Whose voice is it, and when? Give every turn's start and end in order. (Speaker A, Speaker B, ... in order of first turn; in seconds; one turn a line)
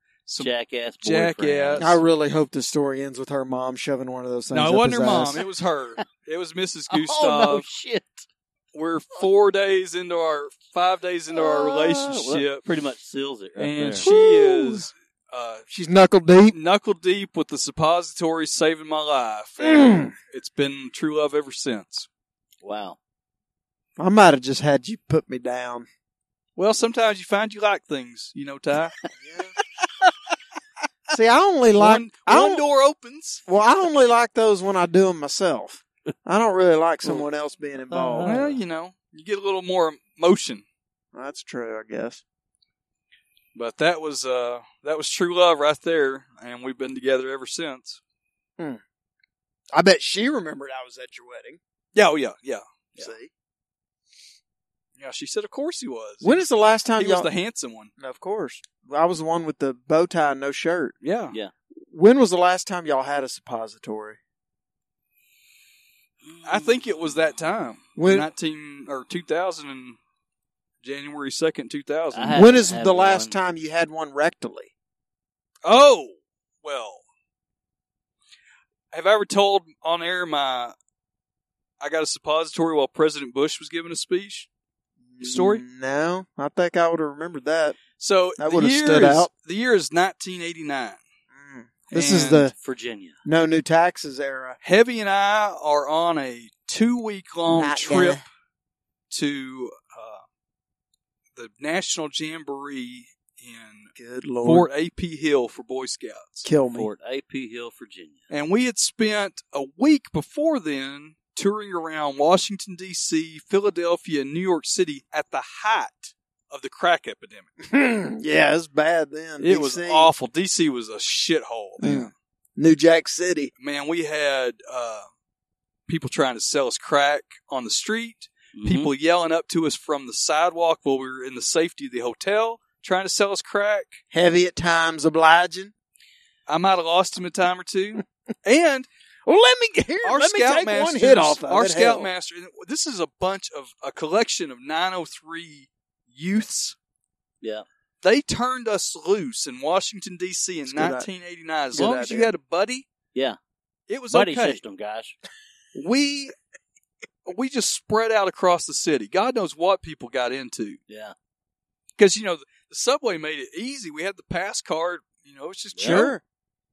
Speaker A: 0.3-2.0
Speaker B: 0.4-1.9
Speaker C: 1.8-5.4
Speaker A: 4.5-7.7
Speaker B: 6.9-8.3
Speaker A: 8.7-12.6
Speaker B: 11.3-14.1
Speaker A: 13.6-15.7
Speaker C: 14.0-14.8
Speaker C: 15.7-16.6
Speaker A: 16.5-22.1
Speaker C: 19.6-20.1
Speaker B: 22.6-23.0
Speaker C: 24.0-25.9
Speaker A: 26.6-28.9
Speaker C: 29.2-29.6
Speaker C: 31.1-32.6
Speaker A: 31.7-33.4
Speaker C: 33.5-38.4
Speaker B: 37.9-38.6
Speaker A: 38.2-40.6
Speaker C: 41.1-42.2
Speaker A: 43.5-48.0
Speaker C: 49.7-51.6
Speaker A: 51.9-53.1
Speaker C: 53.0-53.3
Speaker A: 55.0-56.4
Speaker C: 56.2-57.3
Speaker A: 57.0-57.9
Speaker C: 58.0-61.0
Speaker A: 61.0-61.4
Speaker C: 61.8-64.2
Speaker B: 66.2-67.1
Speaker A: 66.4-70.0
Speaker C: 68.0-68.3
Speaker A: 70.8-72.5
Speaker B: 72.1-73.3
Speaker C: 72.3-74.7
Speaker A: 75.6-77.0
Speaker A: 78.9-80.7
Speaker A: 81.8-84.5
Speaker C: 85.1-87.8
Speaker A: 85.2-85.6
Speaker A: 88.0-91.0
Speaker C: 88.4-89.3
Speaker C: 91.3-92.5
Speaker A: 91.9-92.5
Speaker B: 92.6-93.2
Speaker C: 93.2-94.6
Speaker A: 94.6-98.2
Speaker C: 97.5-98.2
Speaker A: 99.1-100.2
Speaker A: 101.3-103.9
Speaker C: 104.0-104.7
Speaker A: 104.4-106.5
Speaker C: 106.5-106.9
Speaker B: 106.7-108.3
Speaker A: 108.3-117.5
Speaker C: 117.6-120.1
Speaker A: 119.4-122.1
Speaker C: 121.8-123.5
Speaker A: 123.6-125.1
Speaker A: 125.9-134.0
Speaker B: 128.5-128.9
Speaker C: 134.1-135.7
Speaker A: 136.5-138.9
Speaker C: 139.3-142.1
Speaker A: 140.0-146.8
Speaker A: 148.0-152.9
Speaker C: 150.7-151.1
Speaker C: 151.7-152.3
Speaker B: 151.8-152.0
Speaker A: 153.9-154.6
Speaker B: 154.1-155.2
Speaker A: 155.8-156.3
Speaker A: 157.3-160.8
Speaker B: 160.9-161.1
Speaker A: 162.0-166.2
Speaker B: 165.8-166.1
Speaker C: 165.8-166.2